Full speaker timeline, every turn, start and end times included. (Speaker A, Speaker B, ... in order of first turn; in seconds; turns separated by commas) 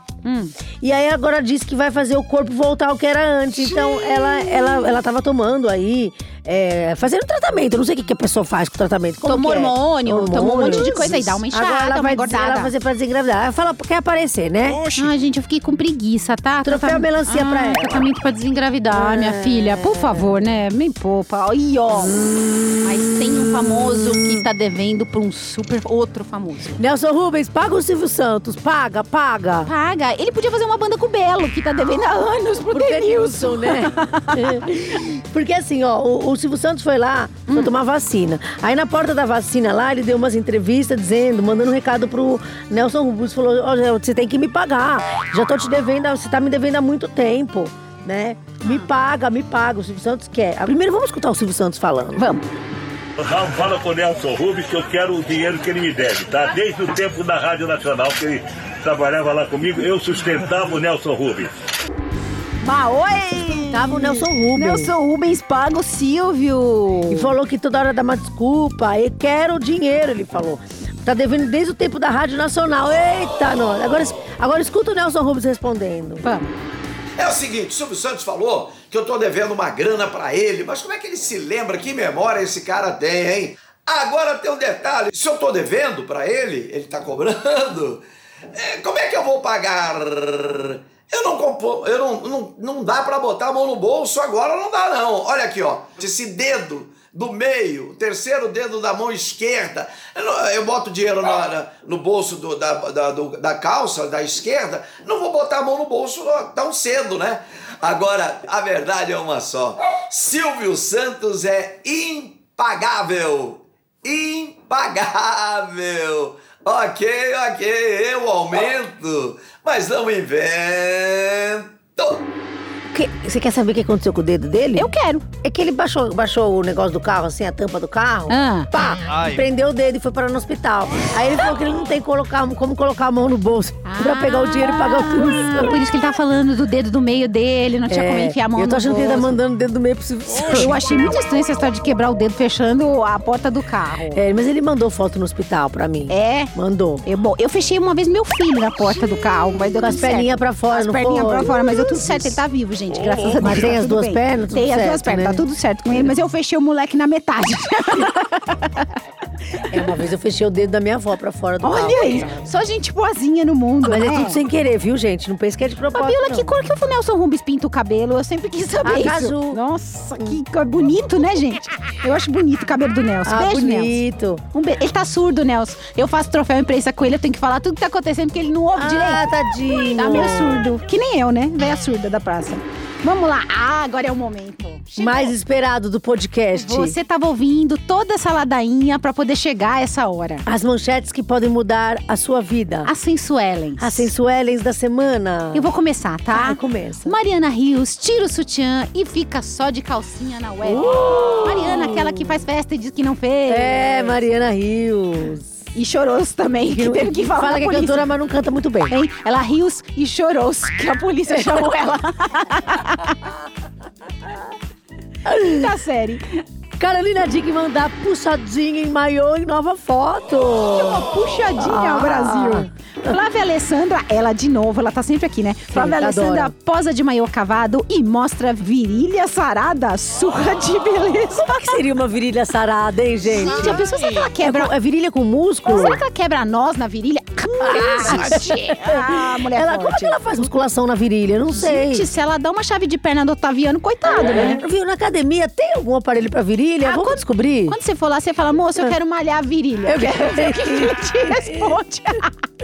Speaker A: 0.2-0.5, Speaker B: 0.8-14.9, Speaker A: 9.2-12.7, Speaker A: 14.9-22.2, Speaker B: 16.6-18.1, Speaker B: 18.9-20.3, Speaker A: 22.8-26.8, Speaker B: 26.8-29.7, Speaker A: 29.6-34.7, Speaker B: 32.7-52.3, Speaker A: 52.2-52.5, Speaker C: 53.2-61.5, Speaker A: 62.6-67.3, Speaker B: 63.7-64.9, Speaker B: 67.1-76.3, Speaker A: 76.2-76.5, Speaker D: 77.2-122.3, Speaker B: 122.9-135.8, Speaker A: 124.8-125.3, Speaker A: 128.3-128.7, Speaker A: 133.8-139.4, Speaker B: 137.9-140.8, Speaker A: 140.4-144.2, Speaker B: 144.1-147.0, Speaker A: 146.1-146.5, Speaker A: 147.0-158.9, Speaker B: 149.8-152.4, Speaker B: 153.3-155.4, Speaker B: 159.7-162.5, Speaker A: 161.6-164.4, Speaker B: 163.8-166.5, Speaker A: 165.9-174.0, Speaker B: 168.8-169.6, Speaker B: 173.2-174.4, Speaker A: 174.5-185.3, Speaker B: 178.8-180.7, Speaker B: 185.0-187.0, Speaker A: 186.6-190.5, Speaker B: 190.5-192.9, Speaker A: 192.8-194.1, Speaker B: 193.8-195.7, Speaker A: 195.5-204.2, Speaker B: 196.3-197.2, Speaker B: 200.6-202.3, Speaker B: 203.5-205.5, Speaker A: 205.7-208.1, Speaker B: 206.7-208.9, Speaker A: 208.9-213.3, Speaker B: 211.3-211.7, Speaker B: 215.3-215.7, Speaker A: 215.4-216.4, Speaker B: 216.8-223.2, Speaker A: 220.7-231.8, Speaker B: 225.7-226.5, Speaker B: 231.4-236.0, Speaker A: 233.3-234.7, Speaker A: 235.7-240.2, Speaker B: 237.6-242.1, Speaker A: 241.5-244.6, Speaker B: 244.2-247.8, Speaker A: 246.8-252.4, Speaker B: 249.9-251.8